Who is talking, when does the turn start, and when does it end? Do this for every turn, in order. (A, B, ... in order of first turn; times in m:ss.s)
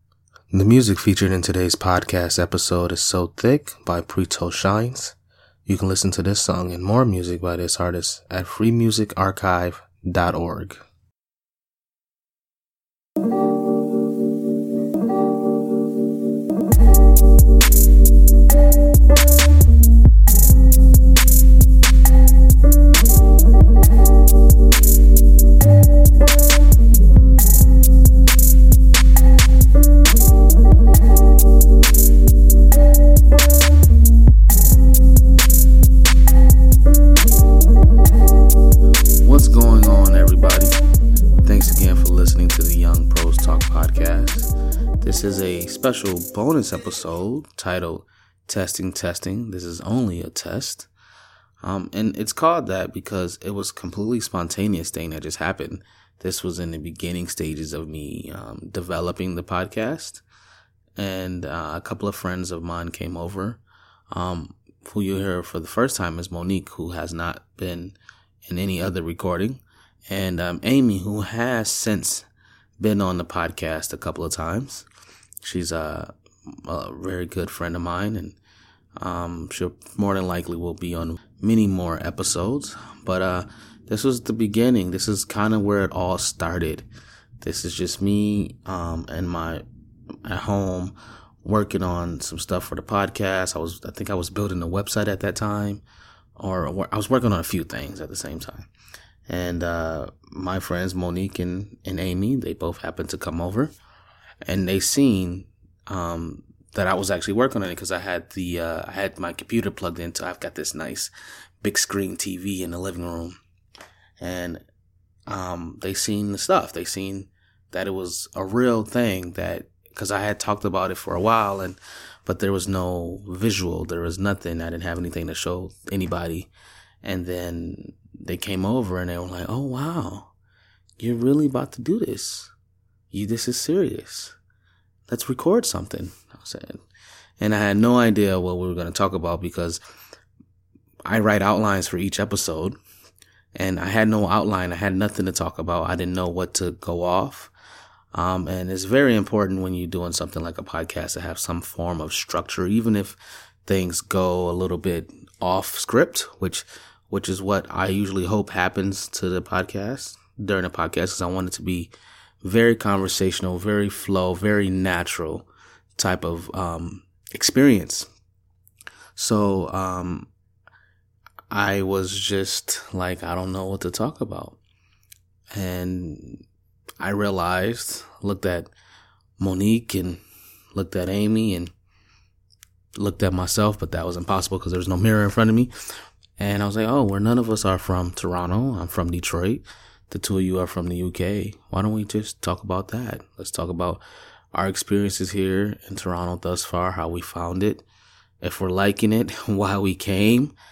0:00.5-0:05.1 A
0:05.6-0:10.8 A
0:39.2-0:40.8 A
0:41.4-0:50.9 A
0:51.6-1:00.2 A
1:01.0-1:12.2 A
1:12.8-1:14.8 A
1:15.4-1:18.4 A
1:19.0-1:26.8 A
1:27.4-1:29.6 A
1:30.2-1:35.8 A
1:36.4-1:38.7 A
1:39.3-1:43.7 A
1:44.4-1:53.4 A
1:54.2-1:54.6 A
1:55.3-2:06.5 A
2:07.0-2:10.3 A
2:11.0-2:12.5 A
2:13.1-2:14.3 A
2:15.1-2:16.8 A
2:17.4-2:19.8 A
2:21.0-2:22.8 A
2:23.5-2:27.5 A
2:28.1-2:41.9 A
2:42.4-2:45.4 A
2:46.0-2:48.1 A
2:49.2-2:50.3 A
2:51.5-2:54.6 A
2:55.5-2:56.4 A
2:57.0-2:58.7 A
2:59.4-3:00.2 A
3:00.7-3:01.7 A
3:03.0-3:05.7 A
3:06.4-3:17.8 A
3:18.4-3:20.5 A